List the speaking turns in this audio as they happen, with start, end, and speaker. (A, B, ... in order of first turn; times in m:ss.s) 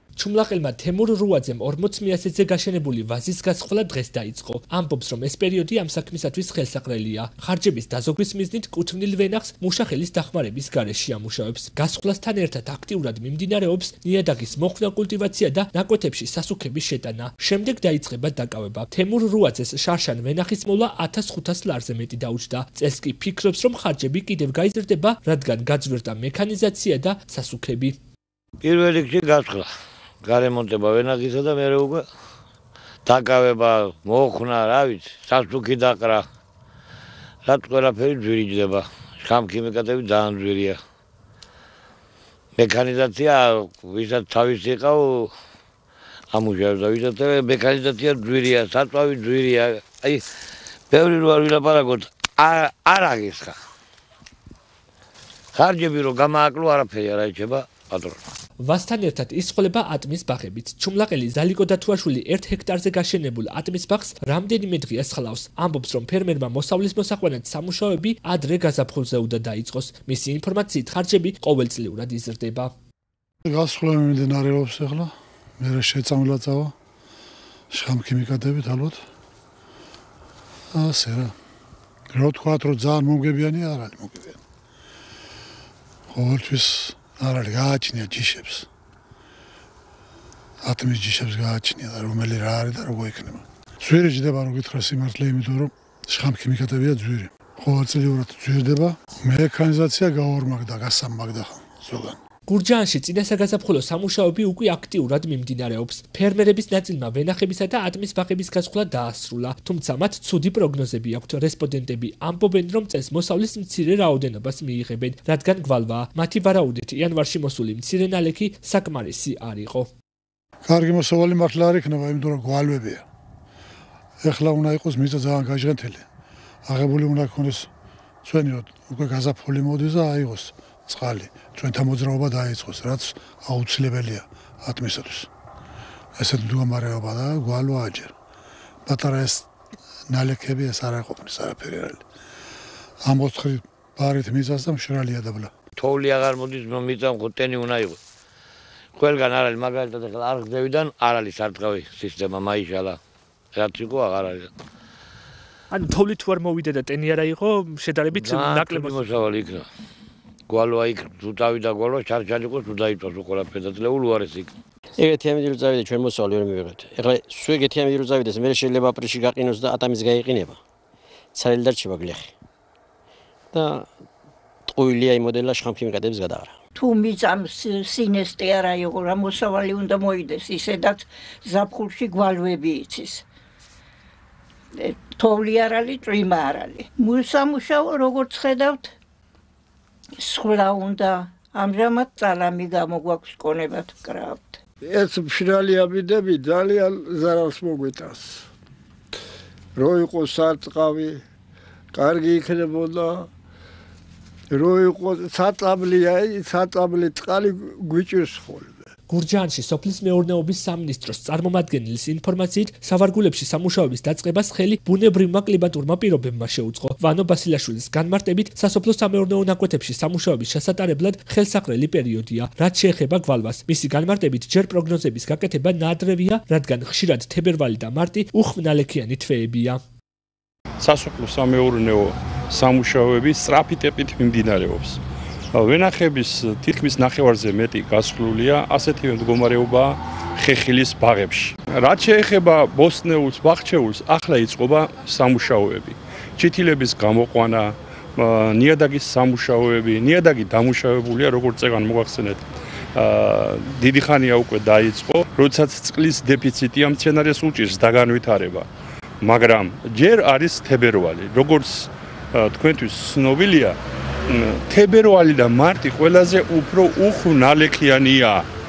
0:00.2-0:28.0 A
0:28.6-0:29.7 B
0:30.2-0:32.0 B
0:33.0-0:36.2 B
0:37.4-0:40.8 B
0:42.6-0:45.3 B
0:46.3-0:50.2 B
0:50.9-0:53.6 B
0:55.5-0:58.2 B
0:58.6-1:12.7 A
1:13.4-1:16.7 C
1:17.7-1:19.0 C
1:20.7-1:21.3 C
1:22.1-1:24.4 C
1:26.1-1:28.7 C
1:30.6-1:42.2 C
1:42.5-1:59.9 A
2:00.6-2:03.0 C
2:04.2-2:06.0 C
2:06.6-2:07.7 C
2:08.2-2:15.3 C
2:16.2-2:18.1 C
2:18.9-2:19.5 C
2:20.1-2:22.0 C
2:23.0-2:25.5 C
2:25.8-2:28.0 B
2:29.0-2:33.0 B
2:33.5-2:34.5 B
2:35.7-2:39.0 A
2:38.1-2:39.6 B
2:40.5-2:44.5 B
2:45.0-2:50.6 D
2:51.3-2:52.3 D
2:53.5-2:53.9 D
2:54.7-2:56.6 D
2:56.8-3:03.2 E
3:04.8-3:08.9 E
3:10.2-3:14.6 E
3:14.8-3:18.5 F
3:19.8-3:21.2 F
3:21.9-3:23.3 F
3:24.5-3:28.9 F
3:29.1-3:49.8 A
3:50.8-3:55.0 G
3:55.5-4:12.4 G
4:12.9-4:18.7 G
4:19.2-4:23.8 G
4:24.3-4:28.4 G